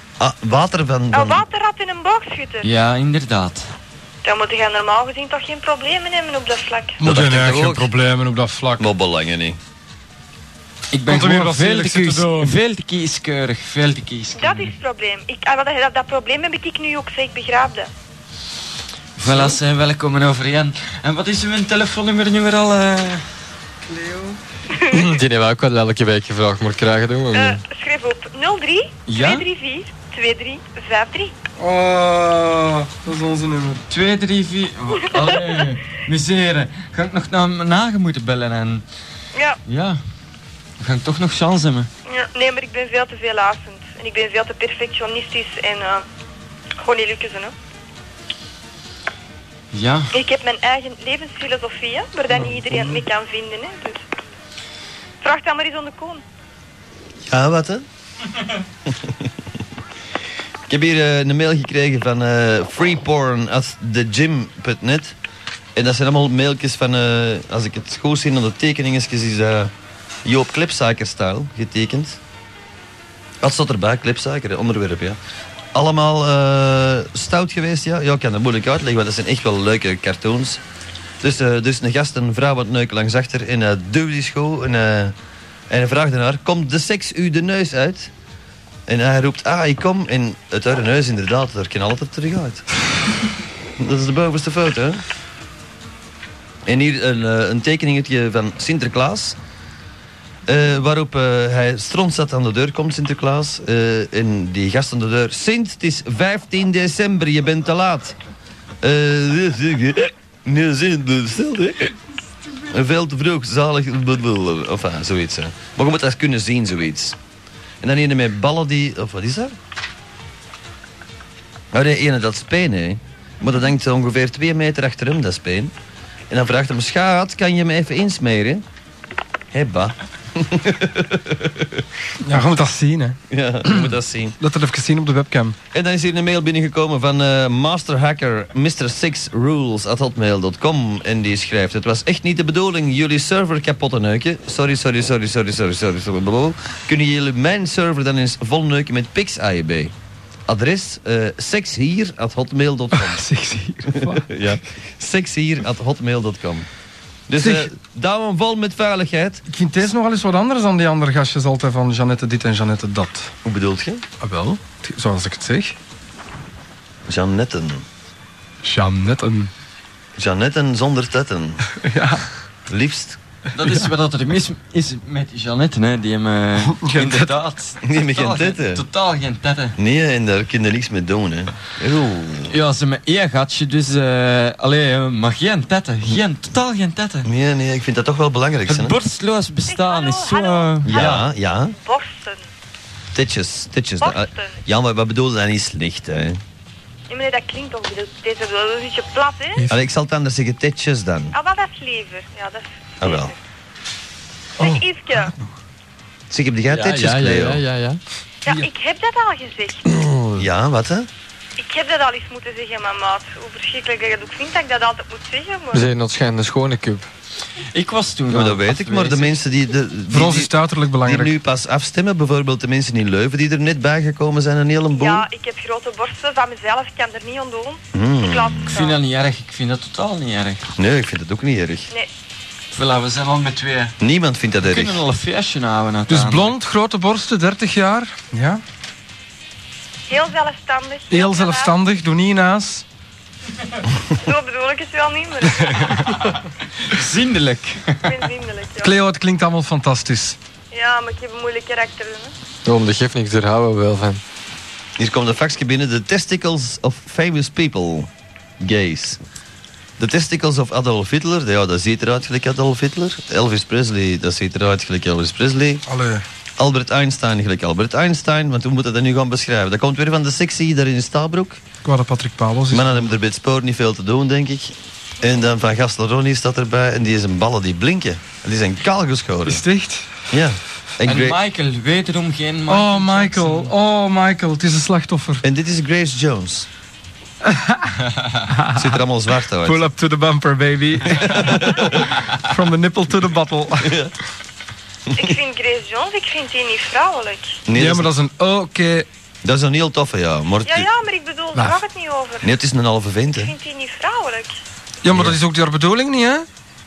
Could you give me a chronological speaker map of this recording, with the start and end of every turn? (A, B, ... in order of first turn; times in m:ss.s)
0:00.2-0:01.4 A
0:01.1-0:02.7 B
0:02.6-0:03.7 C
0:04.2-0:07.0 B
0:07.0-0:08.9 D
0:07.0-0:07.9 A
0:08.8-0:09.6 A
0:10.9-0:14.8 C
0:11.1-0:12.6 D
0:14.4-0:17.9 B
0:19.2-0:23.2 C
0:23.9-0:24.4 D
0:24.8-0:25.1 B
0:24.9-0:27.6 E
0:27.3-0:31.4 B
0:29.1-0:29.5 C
0:31.6-0:33.8 D
0:33.9-0:38.8 C
0:39.3-0:39.6 B
0:39.7-0:40.0 C
0:40.8-0:41.9 C
0:42.1-0:46.1 B
0:46.8-0:47.5 B
0:49.7-0:50.1 C
0:50.1-0:54.0 B
0:55.2-0:56.2 B
0:57.3-0:57.9 A
0:58.9-0:59.2 A
1:00.7-1:05.2 A
1:05.8-1:09.7 A
1:10.2-1:12.2 A
1:13.4-1:15.2 A
1:15.7-1:20.6 A
1:21.2-1:25.2 A
1:25.7-1:28.1 A
1:28.9-1:32.6 A
1:33.8-1:35.0 A
1:36.7-1:39.4 A
1:40.5-1:48.2 A
1:48.8-1:52.0 A
1:52.6-1:57.2 A
1:57.8-1:59.6 A
2:01.7-2:05.8 A
2:06.3-2:08.6 A
2:09.5-2:11.9 A
2:12.2-2:13.2 D
2:13.3-2:14.4 A
2:13.7-2:15.6 D
2:15.7-2:29.9 A
2:30.5-2:33.2 A
2:32.9-2:34.3 D
2:33.9-2:36.7 A
2:37.3-2:39.4 A
2:37.4-2:37.7 D
2:39.5-2:43.3 D
2:43.4-2:44.0 A
2:44.2-2:45.8 D
2:47.1-2:47.9 A
2:48.6-2:49.5 D
2:50.2-2:51.7 A
2:51.7-2:52.2 D
2:52.7-2:53.2 A
2:53.6-2:59.8 C
2:53.6-2:53.9 D
2:56.6-2:57.3 D
2:57.8-2:58.8 A
2:59.8-3:02.6 A
3:02.5-3:07.3 C
3:07.2-3:09.0 A
3:08.7-3:11.2 C
3:09.7-3:11.2 B
3:10.9-3:11.8 A
3:11.8-3:12.4 B
3:13.1-3:16.4 A
3:14.0-3:14.6 B
3:17.1-3:19.6 B
3:19.7-3:21.3 A
3:21.3-3:23.4 B
3:23.0-3:23.3 A
3:24.6-3:25.3 B
3:24.6-3:25.3 D
3:26.3-3:27.6 A
3:26.7-3:28.0 E
3:28.4-3:29.8 B
3:29.9-3:30.4 E
3:30.4-3:31.1 A
3:31.6-3:35.9 B
3:35.7-3:37.1 E
3:37.7-3:39.4 C
3:38.3-3:45.3 A
3:40.1-3:41.4 D
3:45.0-3:49.0 B
3:47.9-3:48.8 A
3:48.7-3:50.6 C
3:50.8-3:51.9 A
3:52.7-3:53.9 C
3:54.0-3:55.0 A
3:54.6-3:56.5 C
3:56.1-3:58.6 D
4:00.1-4:01.8 B
4:01.1-4:02.8 D
4:04.2-4:06.1 B
4:05.8-4:06.2 D
4:06.9-4:08.2 C
4:08.0-4:08.9 B
4:08.8-4:10.4 D
4:10.7-4:12.3 B
4:12.6-4:14.2 E
4:15.0-4:19.2 A
4:20.0-4:25.8 A
4:25.9-4:26.2 D
4:26.6-4:31.6 A
4:31.8-4:33.1 D
4:32.7-4:39.6 A
4:39.5-4:40.1 D
4:40.3-4:41.4 A
4:41.0-4:43.7 C
4:42.7-4:45.4 D
4:45.4-4:46.7 A
4:47.4-4:48.9 D
4:48.8-4:49.8 A
4:49.6-4:54.0 D
4:51.2-4:52.0 A
4:53.8-4:54.1 A
4:55.1-4:55.4 A
4:55.2-4:57.6 B
4:57.7-4:58.1 A
4:57.7-4:59.1 D
4:59.4-5:00.9 A
5:00.6-5:02.5 B
5:01.6-5:01.8 D
5:02.4-5:03.5 A
5:03.4-5:04.6 B
5:05.0-5:06.5 D
5:05.1-5:05.4 A